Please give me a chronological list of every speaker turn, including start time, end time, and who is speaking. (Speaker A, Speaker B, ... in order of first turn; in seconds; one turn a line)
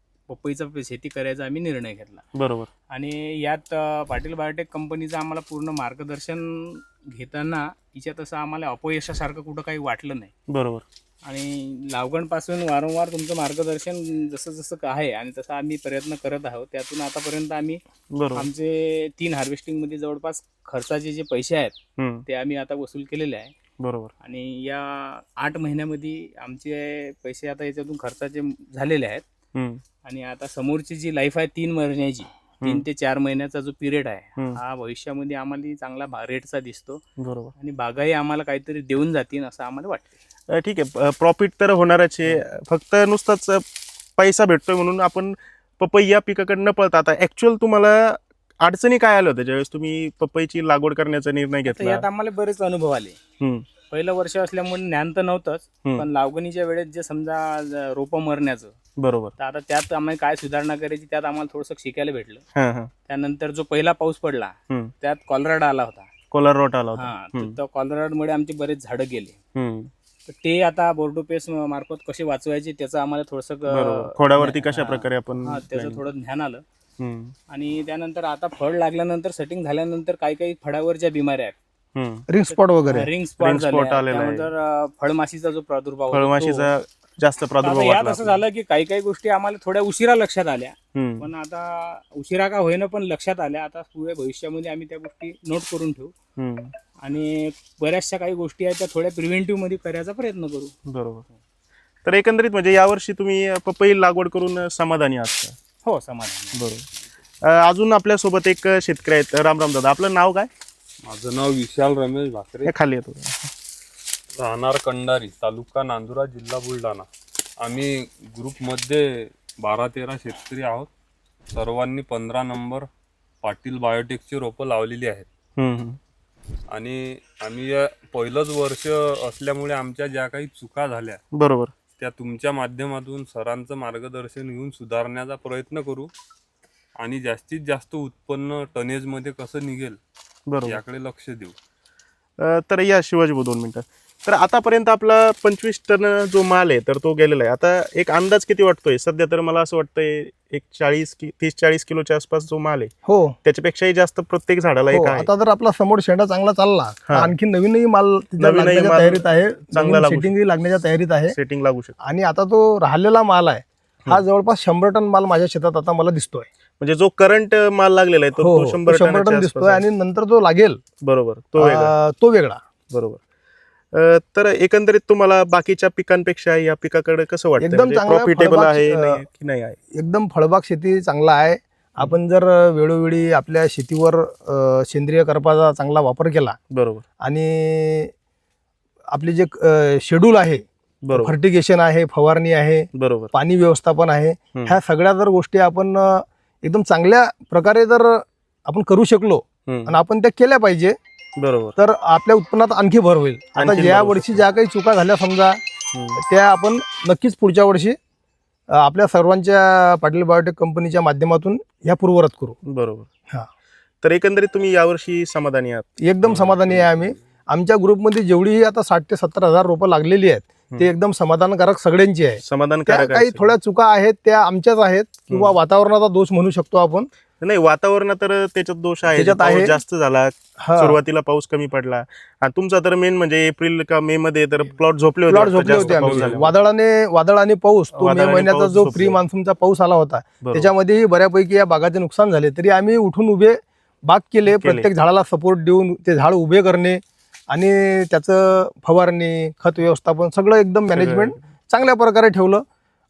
Speaker A: 0.3-2.2
Speaker B: 2.3-2.7
Speaker A: 2.9-10.3
Speaker B: 10.5-10.9
Speaker A: 11.2-17.8
Speaker B: 18.1-18.5
Speaker A: 18.3-21.8
Speaker B: 22.0-22.2
Speaker A: 22.3-23.5
Speaker B: 23.8-24.1
Speaker A: 24.2-29.2
Speaker B: 29.6-29.8
Speaker A: 30.1-37.0
Speaker B: 37.2-37.5
Speaker A: 37.6-40.1
Speaker B: 40.5-43.6
Speaker B: 44.2-52.0
Speaker A: 51.6-53.2
Speaker B: 53.4-53.6
Speaker A: 53.9-58.7
Speaker B: 59.0-59.3
Speaker A: 59.4-62.4
Speaker B: 62.6-62.9
Speaker A: 63.1-66.1
Speaker B: 66.3-67.6
Speaker A: 66.9-69.4
Speaker B: 69.5-69.9
Speaker A: 70.3-76.6
Speaker B: 73.7-76.0
Speaker B: 77.0-77.3
Speaker A: 77.5-81.6
Speaker B: 81.9-82.3
Speaker C: 82.3-83.1
Speaker A: 82.5-86.7
Speaker B: 83.4-84.5
Speaker B: 86.1-88.4
Speaker A: 87.6-96.1
Speaker B: 90.9-91.3
Speaker B: 96.4-96.7
Speaker A: 97.0-100.7
Speaker B: 100.9-101.3
Speaker B: 102.0-105.6
Speaker A: 105.8-106.6
Speaker B: 106.5-106.8
Speaker B: 107.5-110.5
Speaker D: 111.0-112.7
Speaker B: 112.6-113.4
Speaker D: 114.4-117.1
Speaker D: 117.6-120.9
Speaker D: 121.5-122.9
Speaker D: 123.4-125.2
Speaker B: 125.6-126.0
Speaker D: 126.7-131.2
Speaker B: 131.3-131.7
Speaker D: 132.0-136.1
Speaker D: 137.0-140.0
Speaker B: 140.5-140.8
Speaker D: 140.6-141.6
Speaker B: 142.4-152.9
Speaker C: 153.1-153.4
Speaker B: 153.4-155.3
Speaker C: 154.9-161.3
Speaker B: 157.1-157.3
Speaker B: 158.4-160.3
Speaker B: 161.3-162.0
Speaker C: 162.0-166.5
Speaker B: 166.8-169.8
Speaker C: 168.4-170.8
Speaker B: 171.0-171.9
Speaker C: 171.6-172.6
Speaker B: 172.9-173.2
Speaker B: 173.9-179.8
Speaker C: 177.6-179.2
Speaker C: 179.9-186.6
Speaker B: 186.7-187.0
Speaker C: 187.2-188.1
Speaker C: 189.1-190.6
Speaker B: 191.1-191.3
Speaker C: 191.2-200.9
Speaker B: 192.9-193.3
Speaker B: 199.7-199.9
Speaker B: 201.4-201.7
Speaker C: 201.8-205.6
Speaker B: 203.6-204.4
Speaker B: 205.9-206.2
Speaker C: 206.2-208.0
Speaker C: 208.8-212.6
Speaker B: 212.7-213.1
Speaker B: 214.0-216.9
Speaker C: 216.0-227.1
Speaker B: 222.4-223.5
Speaker B: 225.3-225.6
Speaker B: 227.4-236.6
Speaker C: 229.1-229.8
Speaker C: 230.6-230.9
Speaker C: 235.3-252.6
Speaker D: 235.6-236.2
Speaker B: 237.9-239.2
Speaker B: 240.4-240.7
Speaker B: 244.5-244.9
Speaker B: 250.9-251.4